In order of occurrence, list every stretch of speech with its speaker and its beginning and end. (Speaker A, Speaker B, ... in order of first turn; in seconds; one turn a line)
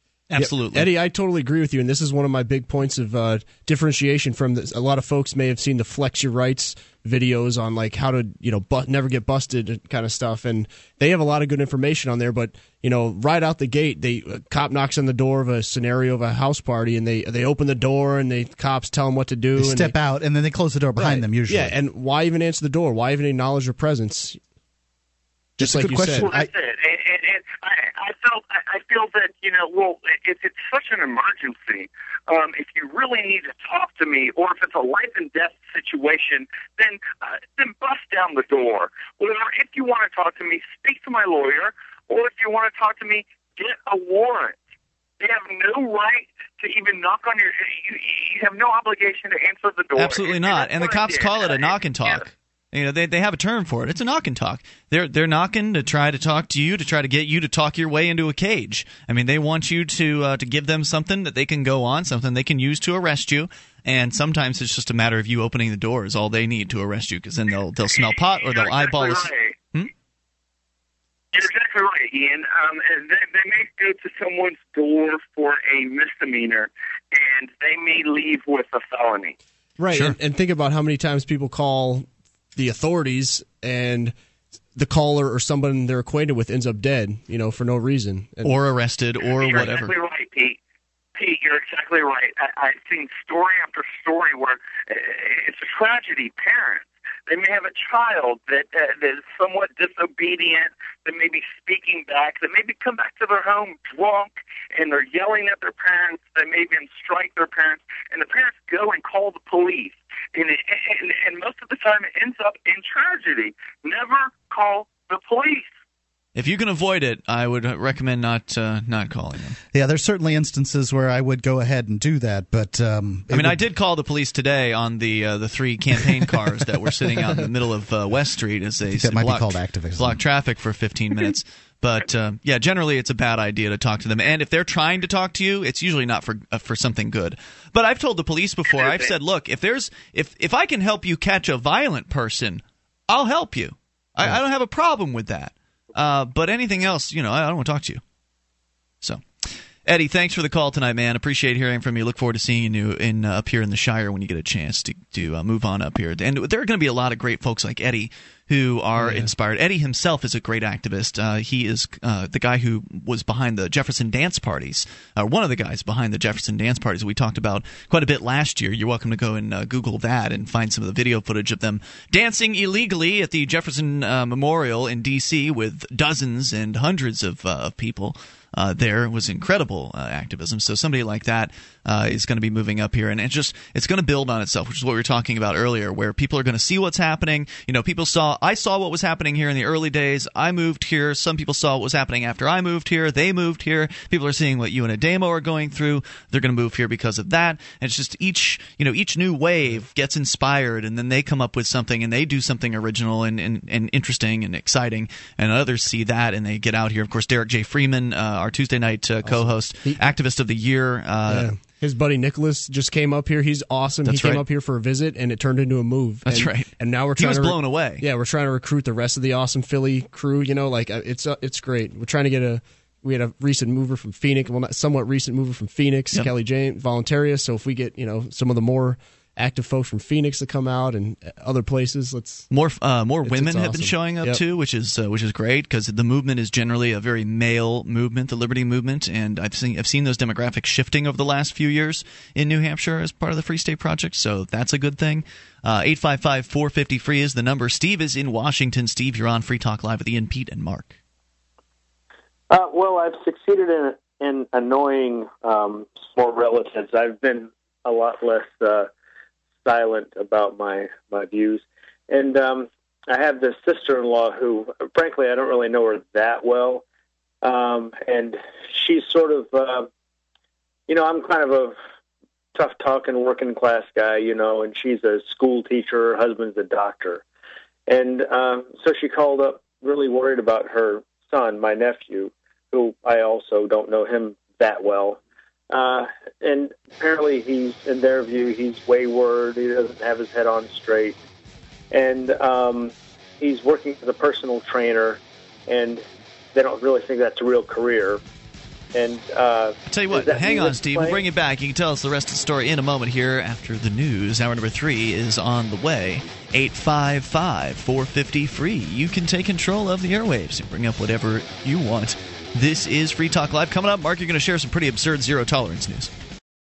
Speaker A: 0.3-0.9
Speaker B: 0.4-19.9
Speaker C: 19.6-21.8
Speaker B: 21.0-24.4
Speaker B: 25.6-26.3
Speaker C: 25.6-26.5
Speaker D: 26.2-44.6
Speaker D: 45.2-52.2
Speaker A: 50.0-69.9
Speaker D: 67.9-69.6
Speaker D: 71.3-79.3
Speaker B: 79.8-84.1
Speaker A: 79.9-80.2
Speaker B: 84.8-88.6
Speaker A: 88.4-89.9
Speaker D: 89.2-90.6
Speaker D: 91.2-115.7
Speaker A: 116.3-119.6
Speaker C: 119.7-123.6
Speaker A: 123.3-148.0
Speaker C: 128.9-130.2
Speaker A: 149.0-211.5
Speaker B: 159.0-159.3
Speaker B: 209.2-210.0
Speaker B: 211.3-232.5
Speaker A: 214.1-214.4
Speaker A: 216.3-218.1
Speaker A: 232.5-251.0
Speaker B: 233.2-234.4
Speaker E: 252.5-258.9
Speaker E: 259.6-266.8
Speaker E: 267.4-269.9
Speaker E: 270.9-271.8
Speaker E: 272.5-277.2
Speaker E: 277.9-285.2
Speaker E: 285.7-291.2
Speaker E: 291.9-298.2
Speaker E: 298.9-301.2
Speaker A: 299.9-316.1